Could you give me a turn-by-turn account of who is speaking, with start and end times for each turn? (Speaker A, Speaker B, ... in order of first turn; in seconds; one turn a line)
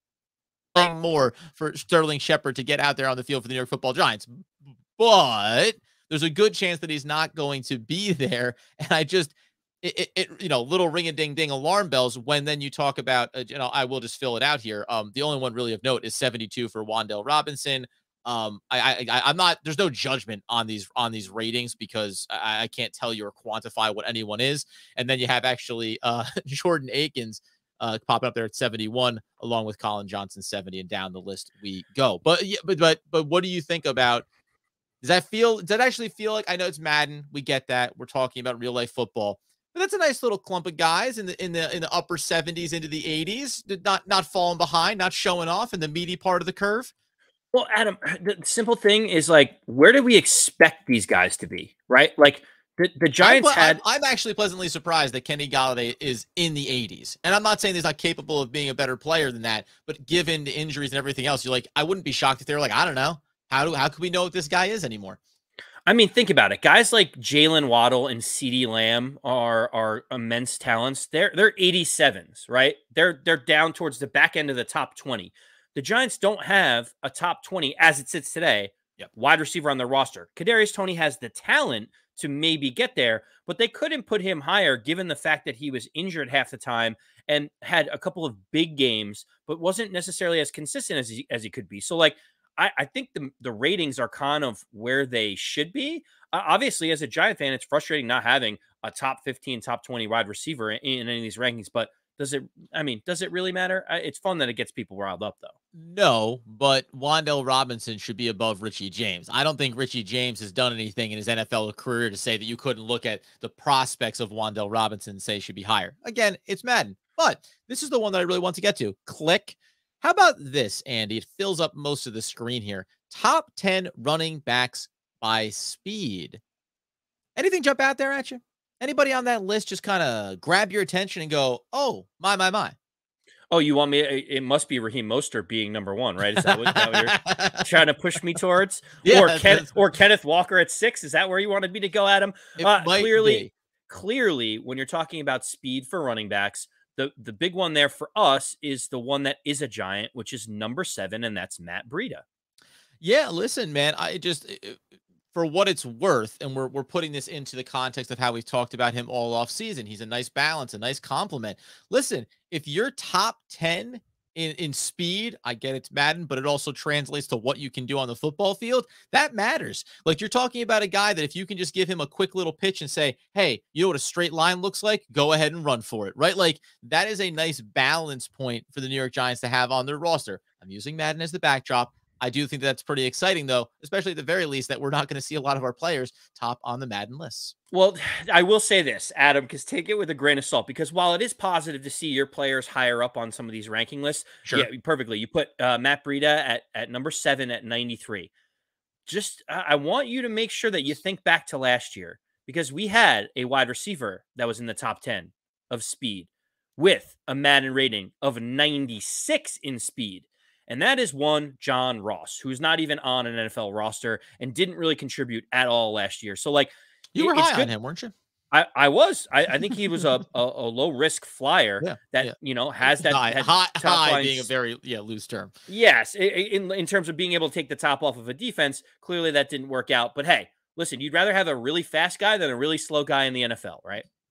Speaker A: 0.8-34.2
Speaker A: 35.0-46.9
Speaker B: 47.5-53.8
Speaker A: 53.2-65.2
Speaker B: 65.9-105.5
Speaker A: 105.7-126.4
Speaker A: 127.4-132.8
Speaker B: 133.5-152.2
Speaker A: 136.3-137.7
Speaker A: 139.0-139.7
Speaker A: 142.6-143.5
Speaker A: 153.0-154.8
Speaker A: 155.3-187.5
Speaker B: 187.7-198.3
Speaker B: 199.1-217.7
Speaker A: 217.1-218.1
Speaker B: 218.5-224.5
Speaker A: 221.8-225.5
Speaker B: 225.7-234.1